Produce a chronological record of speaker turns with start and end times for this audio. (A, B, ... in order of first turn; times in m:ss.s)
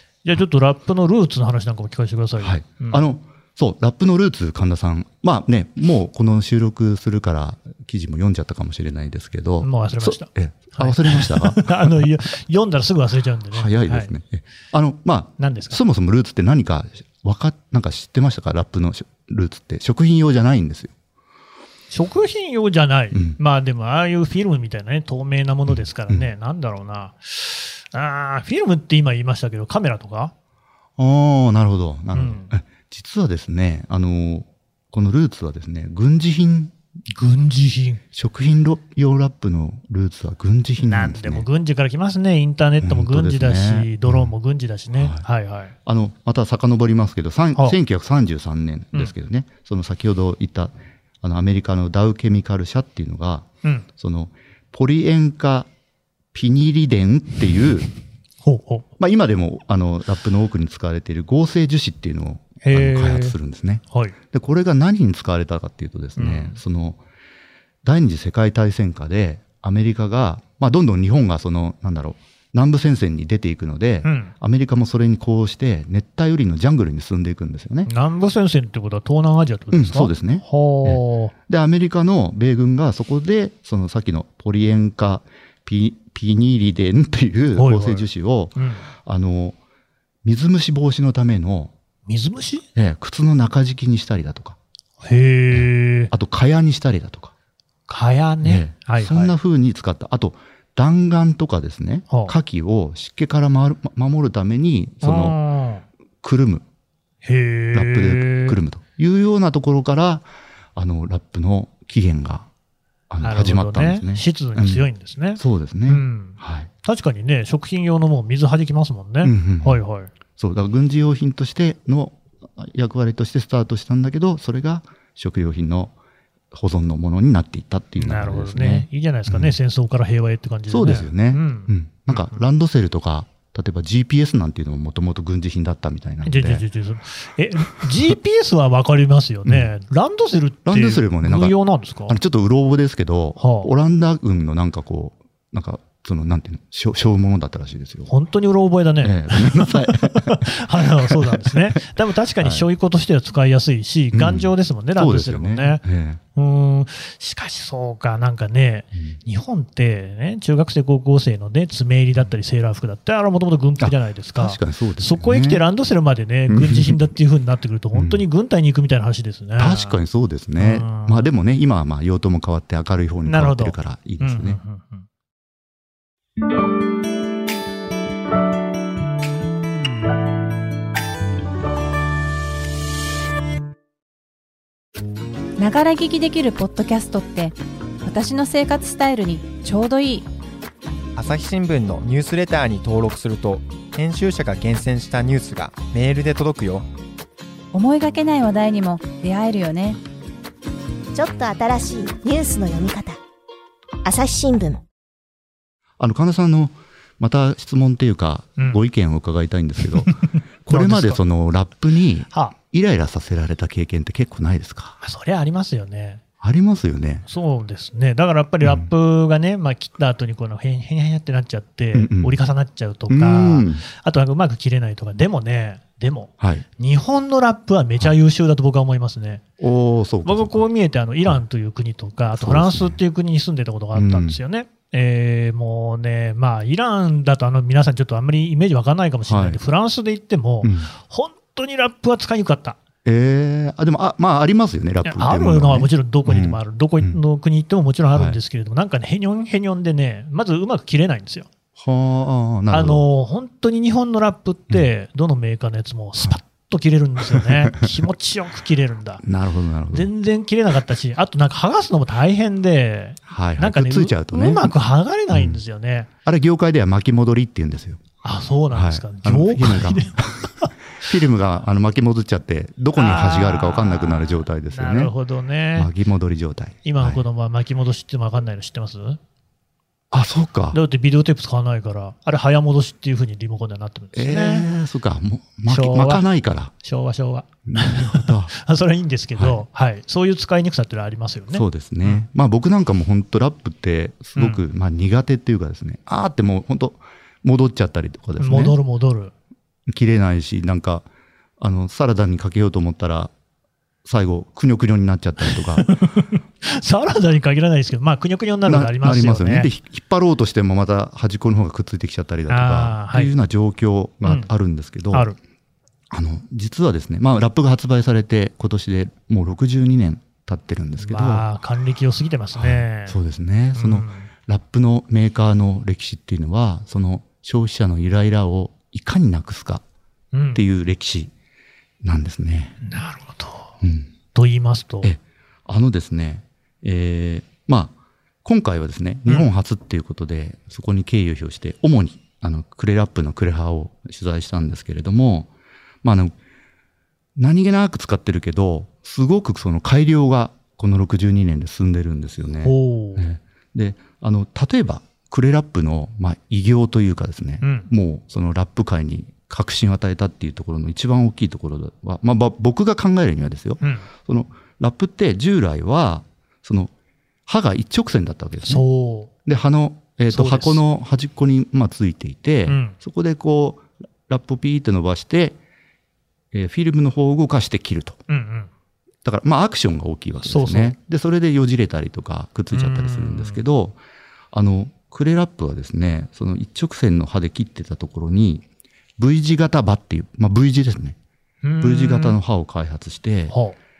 0:00.2-0:03.0 A
0:02.4-0:12.1 B
0:09.6-0:14.1 A
0:13.5-0:20.9 B
0:15.4-0:15.8 A
0:21.9-0:30.3 A
0:23.1-0:23.4 B
0:25.7-0:26.3 B
0:31.0-0:36.7 B
0:32.1-0:32.5 A
0:37.1-0:38.0 A
0:38.1-0:41.4 B
0:40.8-0:45.7 A
0:42.8-0:44.3 B
0:44.9-0:45.2 B
0:45.8-0:55.7 B
0:56.3-0:57.9 B
0:58.4-0:58.8 A
0:59.0-1:07.0 B
1:02.6-1:03.4 A
1:03.9-1:04.2 A
1:06.2-1:06.6 A
1:07.8-1:17.9 B
1:14.0-1:14.3 A
1:17.8-1:21.3 A
1:19.7-1:29.6 B
1:27.6-1:28.8 A
1:30.2-1:31.7 B
1:32.0-1:32.6 A
1:32.8-1:34.6 B
1:35.0-1:36.1 A
1:35.5-1:37.3 B
1:37.9-1:39.3 A
1:38.4-1:45.4 B
1:42.1-1:42.3 A
1:45.0-1:45.8 A
1:46.2-1:46.6 B
1:47.2-1:48.6 A
1:47.7-1:52.5 B
1:53.1-1:54.8 B
1:53.2-2:00.1 A
1:55.4-1:56.7 B
1:59.2-1:59.8 B
2:00.4-2:05.9 B
2:06.5-2:09.6 B
2:08.0-2:12.4 A
2:10.7-2:16.6 B
2:16.2-2:22.2 A
2:20.6-2:28.1 B
2:23.4-2:23.7 A
2:28.1-2:35.8 A
2:29.0-2:31.9 B
2:32.4-2:32.7 B
2:34.1-2:36.2 B
2:36.3-2:50.0 A
2:43.8-2:45.6 B
2:46.5-2:47.0 B
2:47.9-2:48.2 B
2:49.6-2:54.6 B
2:50.6-2:51.3 A
2:53.2-2:55.0 A
3:05.6-3:10.2 C
3:11.2-3:16.9 D
3:17.7-3:20.0 C
3:21.1-3:23.2 E
3:24.0-3:24.8 E
3:26.0-3:35.0 B
3:30.1-3:31.2 A
3:32.3-3:32.6 A
3:35.0-3:36.2 A
3:36.4-3:37.2 B
3:37.3-3:49.4 A
3:38.6-3:38.9 B
3:41.9-3:42.3 B
3:43.1-3:43.8 B
3:46.4-3:46.6 B
3:49.6-3:50.6 B
3:50.2-4:02.8 A
3:52.3-3:53.0 B
3:53.9-3:54.4 B
3:59.3-3:59.6 B
4:00.6-4:00.9 B
4:03.0-4:07.2 B
4:05.0-4:11.5 A
4:08.1-4:08.4 B
4:11.7-4:13.0 B
4:12.7-4:19.2 A
4:17.3-4:17.9 B
4:19.2-4:20.1 B
4:19.9-4:26.1 A
4:23.3-4:24.7 B
4:25.3-4:25.6 B
4:26.2-4:28.0 B
4:28.2-4:30.7 A
4:28.7-4:35.1 B
4:32.9-4:35.9 A
4:35.7-4:37.2 B
4:36.8-4:39.2 A
4:40.1-4:40.8 B
4:40.7-4:44.7 A
4:44.1-4:46.7 B
4:45.7-4:46.2 A
4:46.8-4:52.2 A
4:47.7-4:48.5 B
4:49.4-4:49.6 B
4:51.5-4:58.8 B
4:54.4-4:54.6 A
4:58.4-4:59.3 A
4:59.9-5:01.0 B
5:01.6-5:03.3 B
5:04.0-5:05.9 B
5:05.5-5:09.7 A
5:08.6-5:15.3 B
5:12.5-5:13.3 A
5:14.2-5:14.5 A
5:16.1-5:21.4 B
5:21.0-5:23.2 A
5:22.6-5:29.8 B
5:23.7-5:24.3 A
5:30.3-5:30.6 A
5:30.5-5:31.3 B
5:32.0-5:32.8 B
5:32.8-5:33.7 A
5:33.8-5:34.1 B
5:34.3-5:35.1 A
5:35.0-5:45.5 B
5:46.0-5:46.3 B
5:47.4-6:06.9 B
5:52.6-5:53.2 A
5:57.6-5:57.9 A
6:03.8-6:04.1 A
6:07.5-6:08.8 B
6:08.6-6:09.3 A
6:09.4-6:15.6 B
6:10.3-6:10.8 A
6:12.6-6:13.0 A
6:16.5-6:18.2 B
6:18.3-6:18.7 A
6:19.2-6:24.0 B
6:20.4-6:21.0 A
6:22.7-6:23.6 A
6:24.5-6:28.6 B
6:29.2-6:31.2 B
6:31.6-6:32.4 A
6:31.8-6:33.5 B
6:33.5-6:33.8 A